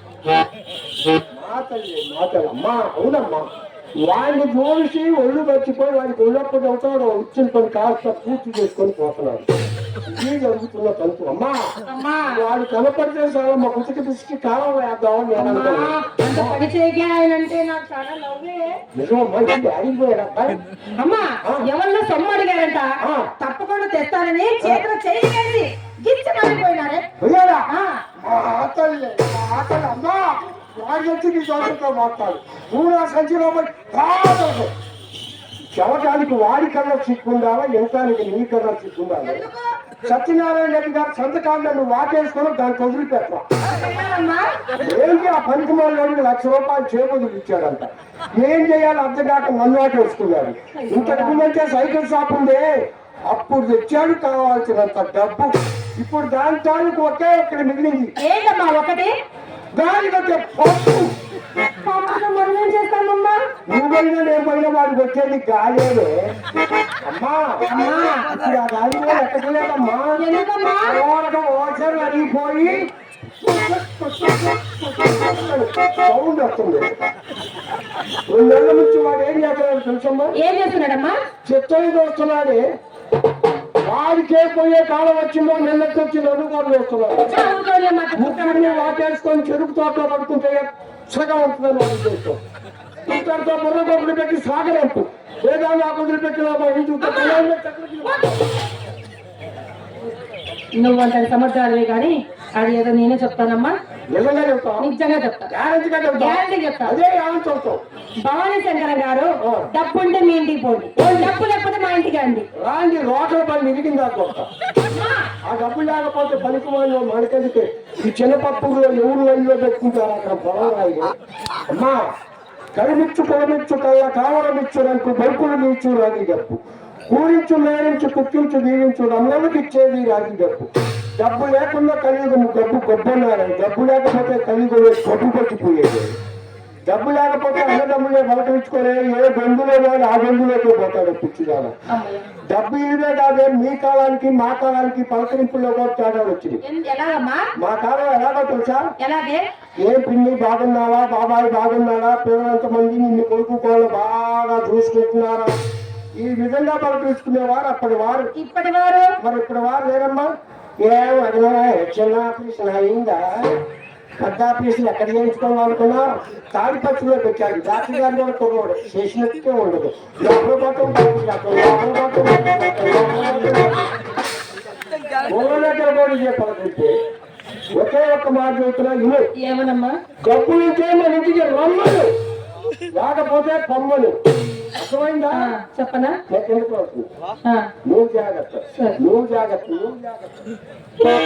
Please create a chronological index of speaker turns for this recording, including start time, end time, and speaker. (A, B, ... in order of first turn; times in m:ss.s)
0:01.3-0:03.5 A
0:04.0-0:09.4 A
0:10.0-0:11.6 A
0:11.9-0:12.3 B
0:12.3-0:16.6 A
0:15.4-0:18.8 B
0:18.9-0:20.6 A
0:21.0-0:22.9 B
0:23.0-0:23.3 A
0:23.4-0:27.0 B
0:27.2-0:27.6 A
0:27.7-0:28.0 B
0:28.2-0:34.7 A
0:35.7-0:39.4 A
0:39.2-0:39.7 B
0:40.0-0:43.4 A
0:43.7-0:44.5 B
0:44.8-0:52.7 A
0:50.7-0:51.5 B
0:53.3-0:58.1 A
0:58.2-0:59.1 B
0:59.8-1:01.1 A
1:01.8-1:03.4 B
1:03.7-1:06.3 A
1:07.0-1:07.6 A
1:07.7-1:08.3 B
1:08.2-1:10.2 A
1:10.2-1:11.0 B
1:10.8-1:12.9 A
1:13.4-1:16.9 A
1:18.3-1:20.3 A
1:20.4-1:21.1 B
1:21.4-1:22.6 A
1:23.8-1:27.4 A
1:27.3-1:29.0 B
1:28.2-1:32.4 A
1:33.0-1:38.4 A
1:37.0-1:37.4 B
1:38.0-1:38.4 B
1:40.8-1:43.7 B
1:44.1-1:44.9 A
1:44.8-1:45.5 B
1:45.5-1:47.8 A
1:46.2-1:46.9 B
1:48.2-1:52.5 B
1:51.0-1:51.3 A
1:52.6-1:54.5 A
1:54.9-1:55.3 B
1:55.5-2:01.1 A
2:01.7-2:02.0 A
2:02.8-2:16.1 A
2:16.9-2:21.7 A
2:21.9-2:22.3 B
2:22.5-2:26.6 A
2:26.6-2:27.4 B
2:27.6-2:28.9 A
2:29.0-2:29.4 B
2:29.8-2:35.5 A
2:36.2-2:38.3 A
2:38.4-2:39.1 B
2:39.2-2:40.3 A
2:40.8-2:43.5 A
2:44.2-2:53.9 A
2:55.2-2:57.0 A
2:57.7-2:59.3 A
2:59.4-3:00.0 B
3:00.2-3:02.1 A
3:02.9-3:04.2 A
3:04.7-3:05.5 A
3:05.3-3:06.2 B
3:06.3-3:07.1 A
3:07.8-3:10.4 A
3:08.7-3:09.0 B